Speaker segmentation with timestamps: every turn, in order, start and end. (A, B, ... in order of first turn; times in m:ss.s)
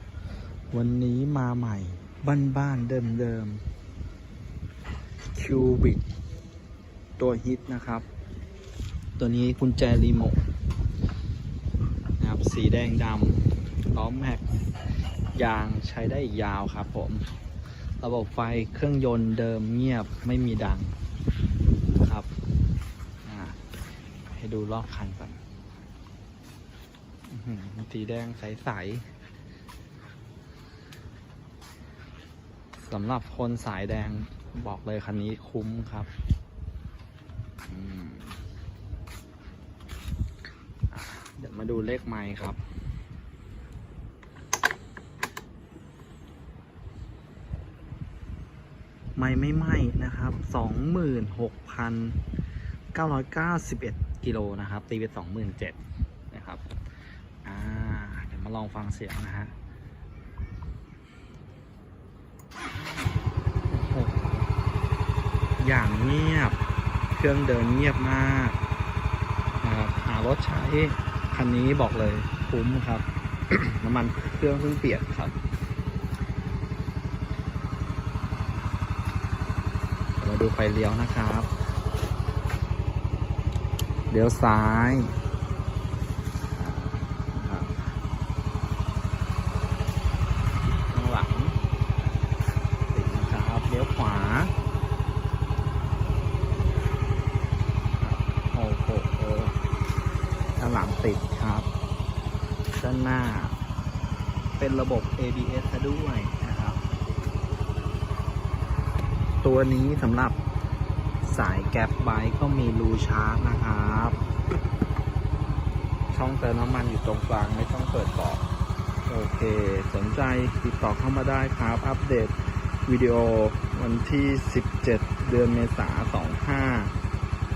0:00.7-0:03.6 A
0:05.3-0:06.0 A
0:07.2-0:08.1 A
0:09.2-0:10.4 A
0:12.2-0:14.6 A
0:15.3-0:17.3 A
0:18.0-0:21.0 A
0:22.0-0:22.3 A
0:23.2-0:23.6 A
0:24.3-0:25.4 A
0:27.3-0:29.1 A
0:32.8-0:36.1 A
0:37.7-0:38.4 A
0:40.9-0:42.6 A
0:49.2-0:52.2 A
0:52.9-0:55.8 A
0:56.3-0:56.6 A
0:57.4-0:59.5 A
1:03.7-1:04.5 A
1:05.6-1:06.6 A
1:07.1-1:08.6 A
1:09.6-1:15.4 A
1:20.2-1:21.5 A
1:24.1-1:25.1 A
1:26.6-1:27.8 A
1:30.6-1:31.6 A
1:32.9-1:34.5 A
1:38.0-1:39.6 A
1:40.6-1:41.7 A
1:42.8-1:43.6 A
1:44.6-1:46.8 A
1:49.4-1:50.4 A
1:51.2-1:54.2 A
1:56.1-1:58.4 A
1:59.1-2:02.4 A
2:02.9-2:06.9 A